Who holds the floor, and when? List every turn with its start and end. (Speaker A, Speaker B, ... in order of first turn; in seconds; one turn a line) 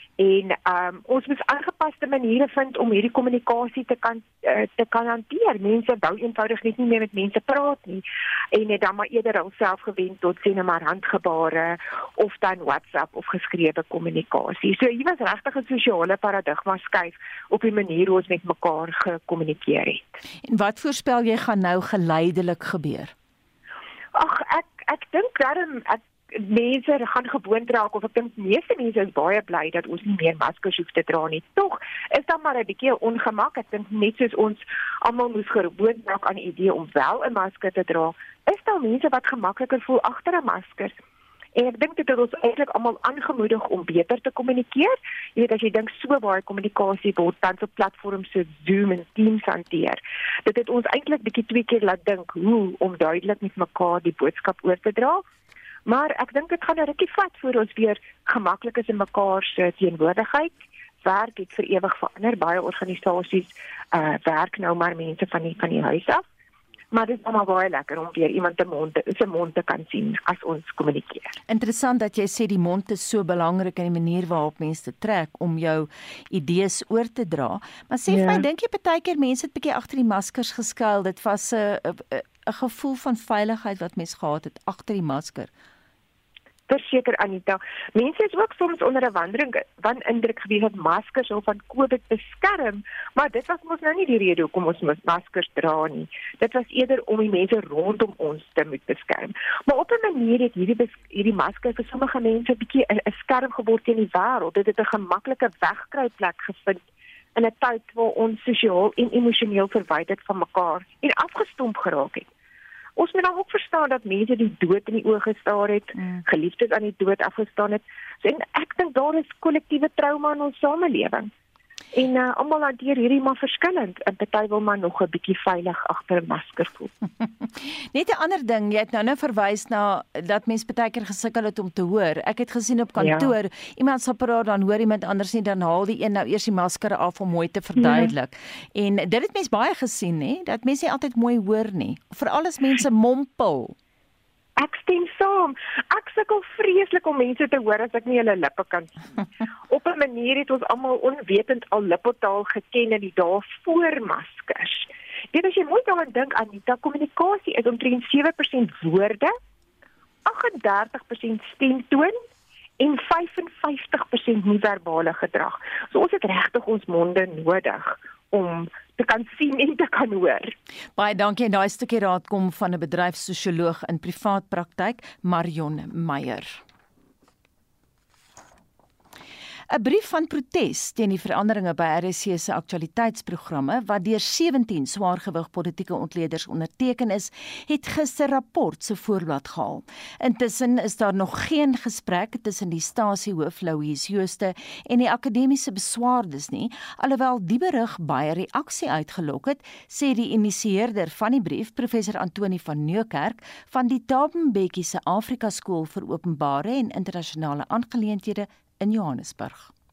Speaker A: 0.2-20.1
Speaker B: 20.4-23.1
Speaker A: 24.1-40.9
Speaker A: 41.5-55.2
Speaker A: 55.9-66.2
Speaker A: 66.9-71.3
Speaker B: 71.5-85.5
Speaker A: 78.1-78.4
Speaker A: 86.7-106.8
Speaker A: 107.3-112.3
Speaker A: 113.0-121.3
Speaker A: 121.9-126.9
Speaker B: 127.2-143.8
Speaker A: 133.0-133.3
Speaker A: 137.8-138.1
Speaker A: 144.6-148.9
Speaker A: 149.7-159.3
Speaker A: 160.2-162.2
Speaker A: 162.8-170.5
Speaker B: 170.9-176.6
Speaker B: 179.7-209.7